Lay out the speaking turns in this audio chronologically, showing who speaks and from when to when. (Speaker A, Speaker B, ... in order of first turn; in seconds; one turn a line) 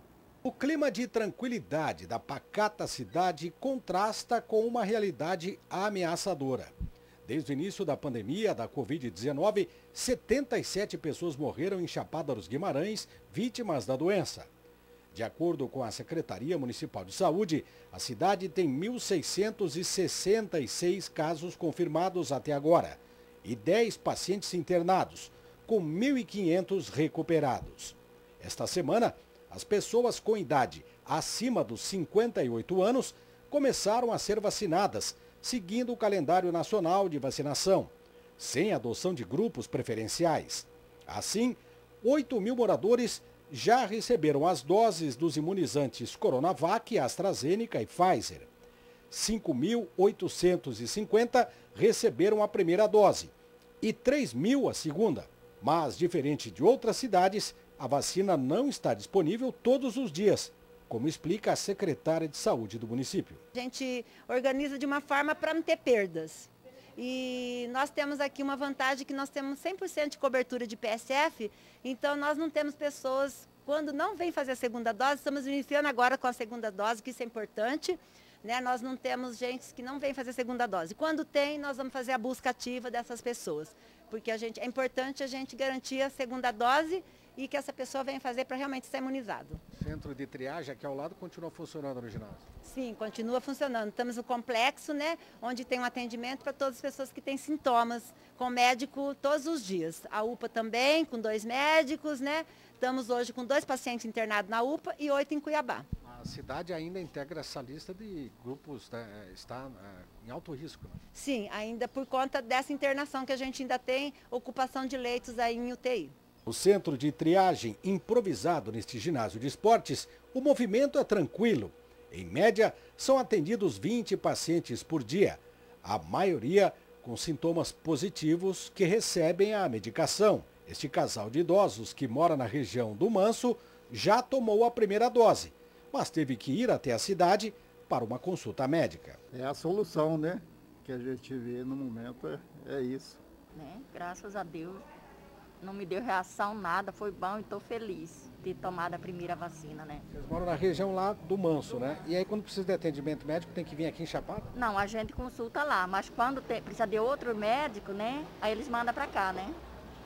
Speaker A: 0.4-6.7
Speaker A: 7.2-14.5
Speaker A: 15.1-48.5
Speaker A: 49.1-63.4
Speaker B: 63.5-89.6
Speaker A: 89.7-92.4
Speaker B: 92.6-105.8
Speaker A: 106.0-111.0
Speaker B: 111.1-116.1
Speaker A: 116.5-139.2
Speaker C: 139.3-143.2
Speaker D: 143.5-144.8
Speaker D: 145.6-150.0
Speaker A: 150.1-154.5
Speaker D: 154.5-159.6